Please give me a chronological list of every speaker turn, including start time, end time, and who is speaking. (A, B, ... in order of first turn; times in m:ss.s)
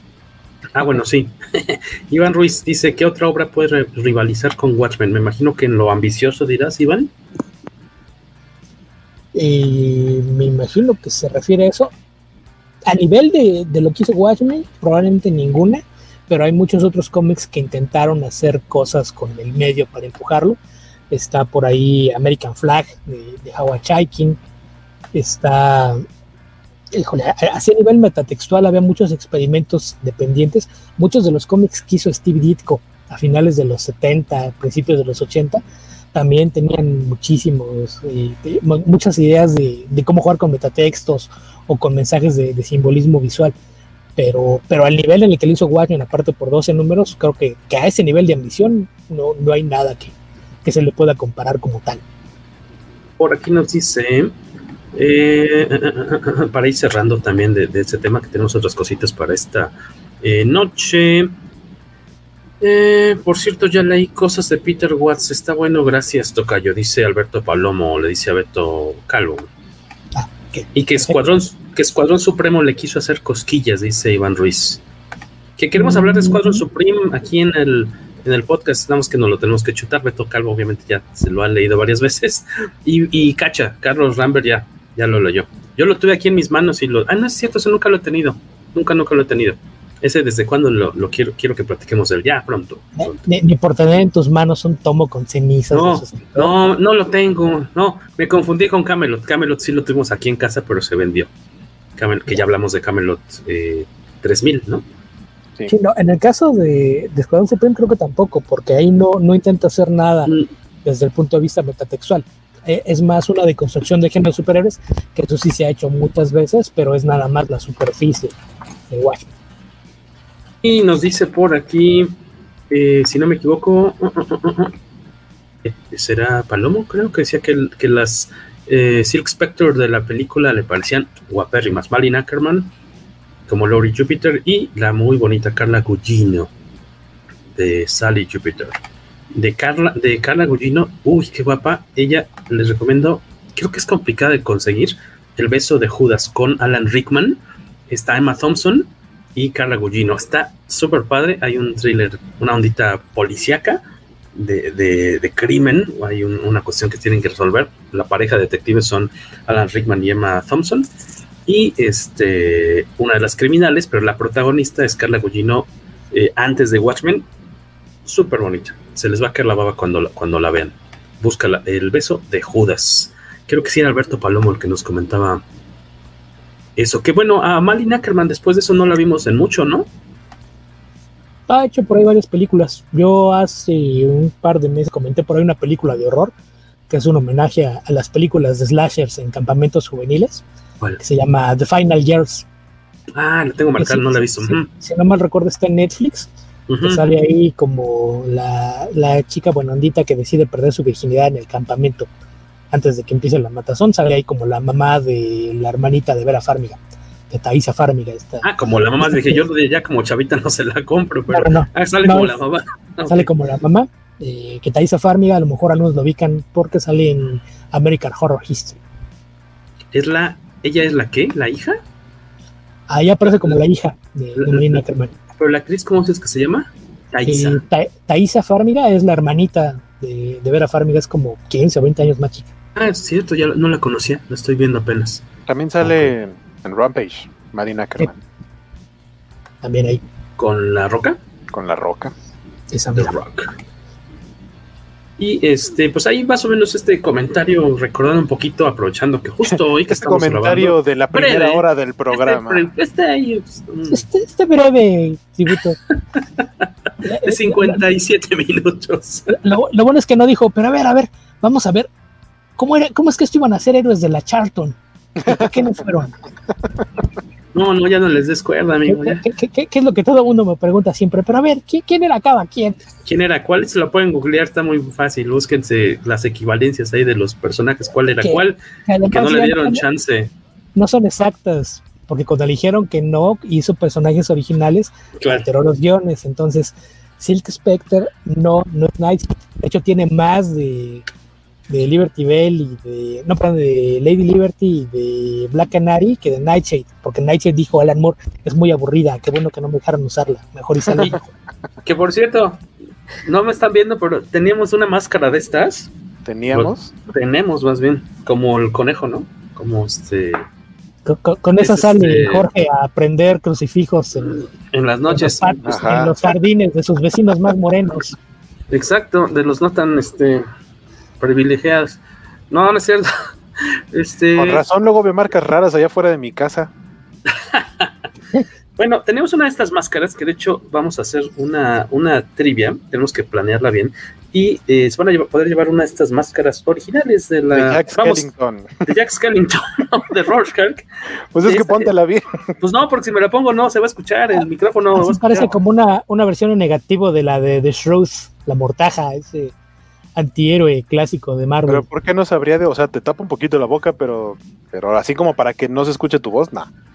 0:00.7-0:07.1 A
0:09.3-0:11.9 B
0:12.9-0:20.6 B
0:21.1-0:24.4 B
0:25.1-0:26.0 B
0:26.9-0:35.6 B
0:36.1-0:43.5 B
0:44.2-0:52.0 B
0:53.2-0:54.3 A
0:55.0-1:01.3 A
1:02.6-1:09.5 A
1:10.1-1:11.2 B
1:10.7-1:14.8 A
1:15.6-1:33.2 A
1:15.8-1:16.6 B
1:33.0-1:36.5 B
1:35.7-1:41.3 A
1:42.0-1:44.8 A
1:45.7-1:50.3 B
1:50.8-1:58.3 B
1:58.9-1:59.3 B
2:00.6-2:02.1 A
2:02.7-2:04.7 A
2:05.6-2:12.7 A
2:13.5-2:16.5 A
2:17.6-2:18.8 A
2:19.3-2:33.8 A
2:34.3-2:40.9 A
2:41.4-2:47.2 A
2:48.0-2:55.4 A
2:56.8-2:59.9 A
3:01.5-3:06.3 B
3:06.9-3:10.4 B
3:11.0-3:12.4 B
3:13.1-3:14.7 A
3:13.8-3:16.3 B
3:16.7-3:17.0 A
3:16.8-3:22.1 B
3:22.7-3:26.8 B
3:27.3-3:28.5 B
3:28.4-3:33.3 A
3:29.0-3:29.4 B
3:31.3-3:32.3 B
3:33.1-3:38.8 B
3:39.9-3:41.8 A
3:42.9-3:45.1 B
3:43.2-3:43.5 A
3:44.4-3:44.8 A
3:45.4-3:47.6 A
3:47.2-3:52.5 B
3:52.8-3:55.2 A
3:55.5-3:58.2 C
3:55.8-3:56.1 A
3:59.6-4:00.0 B
4:00.4-4:01.2 A
4:01.5-4:02.1 C
4:02.7-4:03.2 B
4:03.0-4:03.5 A
4:05.2-4:14.0 A
4:09.9-4:12.7 C
4:13.9-4:15.8 B
4:17.0-4:17.8 B
4:17.2-4:19.4 A
4:19.3-4:21.9 B
4:22.6-4:26.2 B
4:25.2-4:25.6 C
4:27.5-4:29.2 A
4:28.9-4:32.8 B
4:33.0-4:38.6 A
4:38.2-4:39.8 B
4:39.1-4:40.3 A
4:40.8-4:51.0 B
4:45.2-4:45.4 A
4:51.7-5:01.3 B
5:01.8-5:02.6 A
5:03.2-5:05.9 A
5:06.2-5:06.9 C
5:06.5-5:10.4 A
5:11.0-5:14.4 B
5:11.6-5:12.5 A
5:14.7-5:15.6 A
5:15.1-5:18.2 B
5:15.6-5:16.1 C
5:18.7-5:20.5 A
5:21.2-5:22.0 A
5:22.5-5:23.1 A
5:23.9-5:24.6 A
5:24.3-5:26.7 C
5:27.4-5:27.9 A
5:28.8-5:38.3 A
5:37.5-5:38.8 C
5:38.8-5:40.8 A
5:41.3-5:42.4 C
5:41.4-5:41.9 A
5:42.6-5:45.6 A
5:45.0-5:49.5 B
5:50.2-5:51.9 B
5:51.7-5:56.7 C